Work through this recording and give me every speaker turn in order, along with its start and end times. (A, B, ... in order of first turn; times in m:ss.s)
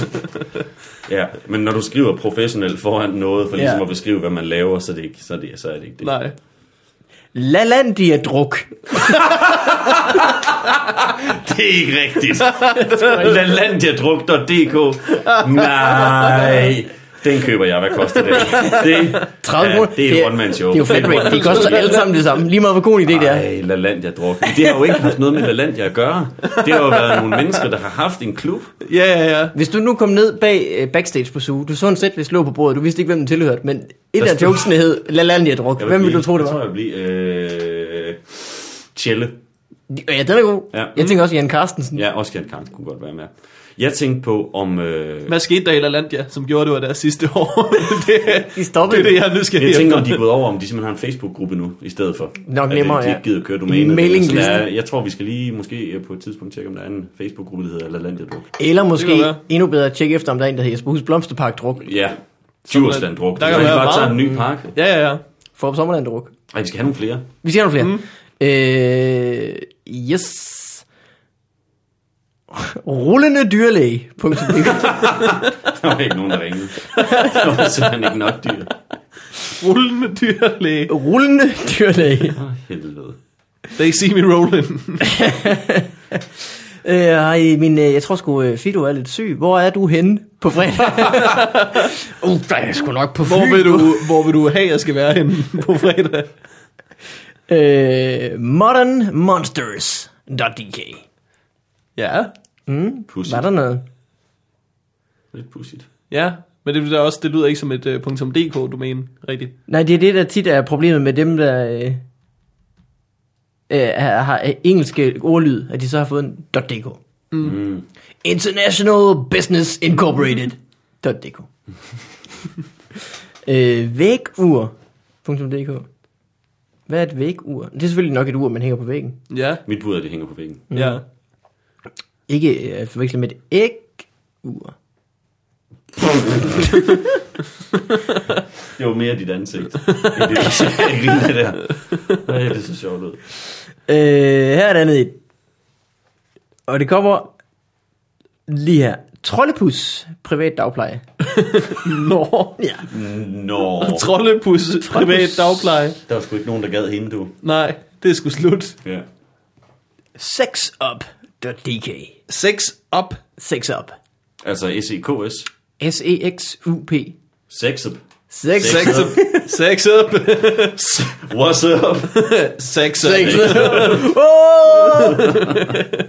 0:01.1-0:06.2 A
0:03.6-0:03.8 B
0:06.0-0:06.3 C
0:07.4-0:09.4 B
0:09.3-0:22.0 A
0:12.5-0:13.2 C
0:12.8-0:13.3 B
0:15.3-0:16.7 C
0:18.2-0:18.8 C
0:18.6-0:23.4 B
0:20.9-0:22.2 C
0:23.1-0:28.8 A
0:26.5-0:27.4 C
0:28.8-0:29.5 C
0:29.5-0:36.6 B
0:34.2-0:34.7 A
0:35.8-0:39.4 A
0:39.9-0:42.0 B
0:42.0-0:45.4 A
0:45.3-0:50.2 C
0:48.3-0:49.2 B
0:49.5-0:58.5 A
0:52.5-0:54.7 B
0:58.6-1:01.9 B
0:59.0-0:59.4 C
1:01.8-1:04.7 A
1:02.7-1:04.2 C
1:03.5-1:04.4 B
1:04.8-1:05.2 C
1:05.6-1:06.3 B
1:06.5-1:07.3 A
1:07.4-1:10.9 B
1:12.5-1:15.2 B
1:14.8-1:18.7 A
1:17.0-1:17.4 B
1:19.5-1:20.9 C
1:20.9-1:22.4 B
1:22.3-1:23.2 A
1:23.8-1:25.1 C
1:25.0-1:26.2 B
1:26.8-1:34.1 B
1:33.2-1:36.3 C
1:37.5-1:41.0 B
1:42.0-1:42.3 C
1:42.7-1:43.8 B
1:43.1-1:43.5 A
1:45.3-1:45.9 A
1:46.1-1:49.5 C
1:49.7-1:52.0 B
1:53.7-1:57.0 B
1:57.4-1:57.8 A
1:58.2-2:01.5 B
2:03.4-2:04.7 B
2:05.2-2:05.9 B
2:06.9-2:09.2 B
2:09.3-2:09.6 C
2:09.7-2:10.7 A
2:10.7-2:11.0 B
2:10.7-2:11.0 C
2:12.3-2:14.8 B
2:18.7-2:23.2 A
2:19.9-2:20.6 C
2:23.9-2:25.2 B
2:26.7-2:27.3 B
2:28.5-2:31.0 B
2:31.3-2:32.6 C
2:32.6-2:32.9 B
2:32.9-2:34.1 A
2:33.8-2:36.0 C
2:34.8-2:35.4 B
2:35.9-2:37.4 A
2:37.4-2:38.8 C
2:40.2-2:42.2 B
2:42.3-2:43.2 C
2:43.4-2:44.0 B
2:44.4-2:45.5 A
2:45.8-2:47.2 B
2:47.5-2:49.2 A
2:48.3-2:49.5 B
2:48.6-2:50.8 C
2:50.5-2:52.4 A
2:52.1-2:54.0 C
2:53.0-2:55.7 B
2:53.2-2:54.1 A
2:55.0-2:55.8 A